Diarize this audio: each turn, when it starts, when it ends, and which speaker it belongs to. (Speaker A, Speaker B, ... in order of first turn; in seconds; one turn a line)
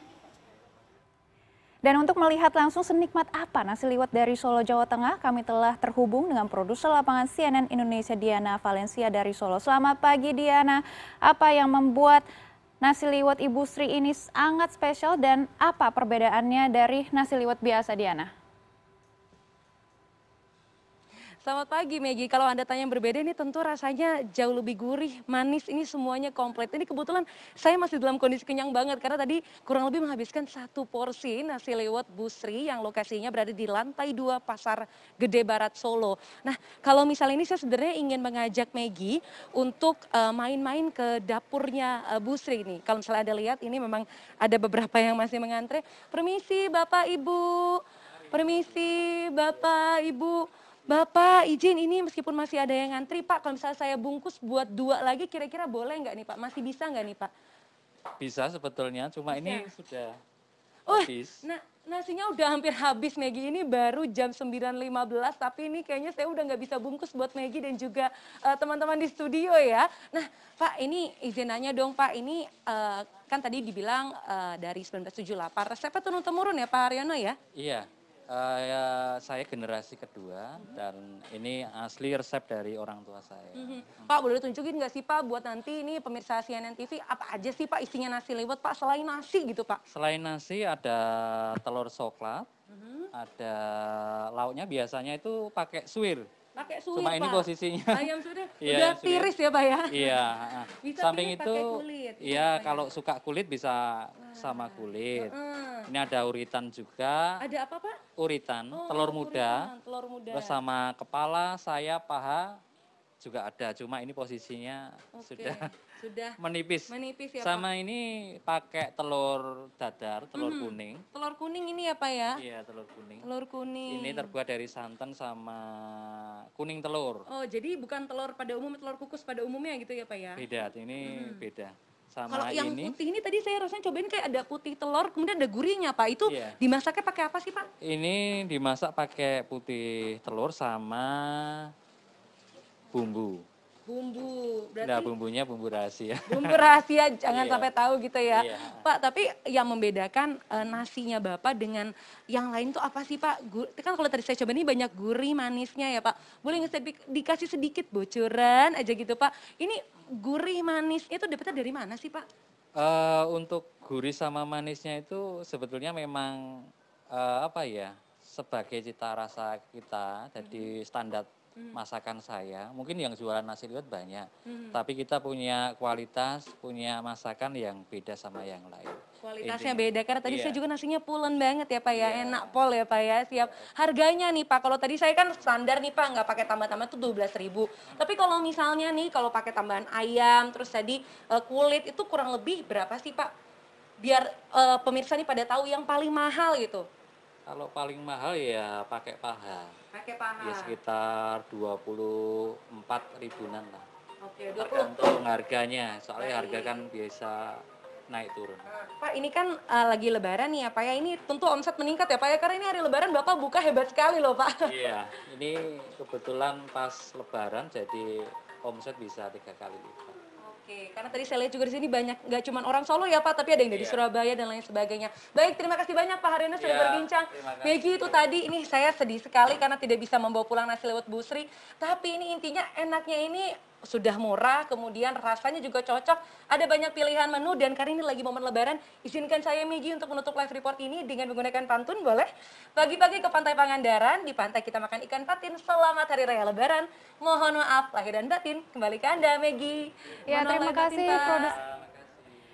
Speaker A: 1.8-12.2
Speaker A: 12.8-18.3
Speaker B: 21.4-57.3
Speaker C: 58.2-60.2
Speaker B: 59.3-59.7
Speaker B: 60.9-77.4
Speaker C: 60.9-61.4
Speaker C: 77.6-84.1
Speaker B: 83.6-89.8
Speaker C: 89.9-92.5
Speaker B: 92.7-93.1
Speaker C: 93.1-96.3
Speaker B: 96.6-100.3
Speaker C: 96.9-98.1
Speaker C: 98.6-99.3
Speaker C: 99.9-105.3
Speaker B: 100.8-103.0
Speaker B: 104.2-105.9
Speaker C: 105.9-107.4
Speaker B: 107.4-108.0
Speaker C: 108.2-109.7
Speaker B: 108.7-110.6
Speaker C: 110.3-112.5
Speaker C: 113.2-115.7
Speaker B: 115.2-116.4
Speaker C: 116.4-121.0
Speaker B: 116.9-117.7
Speaker B: 120.3-122.4
Speaker C: 122.4-123.3
Speaker B: 123.2-124.3
Speaker C: 123.9-127.2
Speaker B: 127.3-130.4
Speaker C: 130.4-133.0
Speaker B: 131.0-131.4
Speaker B: 132.3-137.7
Speaker C: 136.3-136.6
Speaker C: 137.8-141.7
Speaker C: 142.9-143.4
Speaker B: 143.9-145.1
Speaker C: 144.8-146.8
Speaker B: 146.3-162.3
Speaker C: 147.3-147.7
Speaker C: 148.3-148.9
Speaker C: 162.8-180.6
Speaker B: 170.4-170.7
Speaker B: 174.5-174.8
Speaker B: 179.2-193.3
Speaker C: 181.9-182.6
Speaker B: 194.0-196.9
Speaker C: 197.5-199.8
Speaker B: 199.9-200.8
Speaker C: 200.4-203.8
Speaker B: 204.2-204.9
Speaker C: 204.6-208.7
Speaker B: 206.2-206.7
Speaker B: 208.7-214.8
Speaker C: 214.6-220.2
Speaker B: 220.4-251.6
Speaker C: 223.7-224.0
Speaker C: 226.6-228.3
Speaker A: 250.3-251.6
Speaker C: 251.1-252.3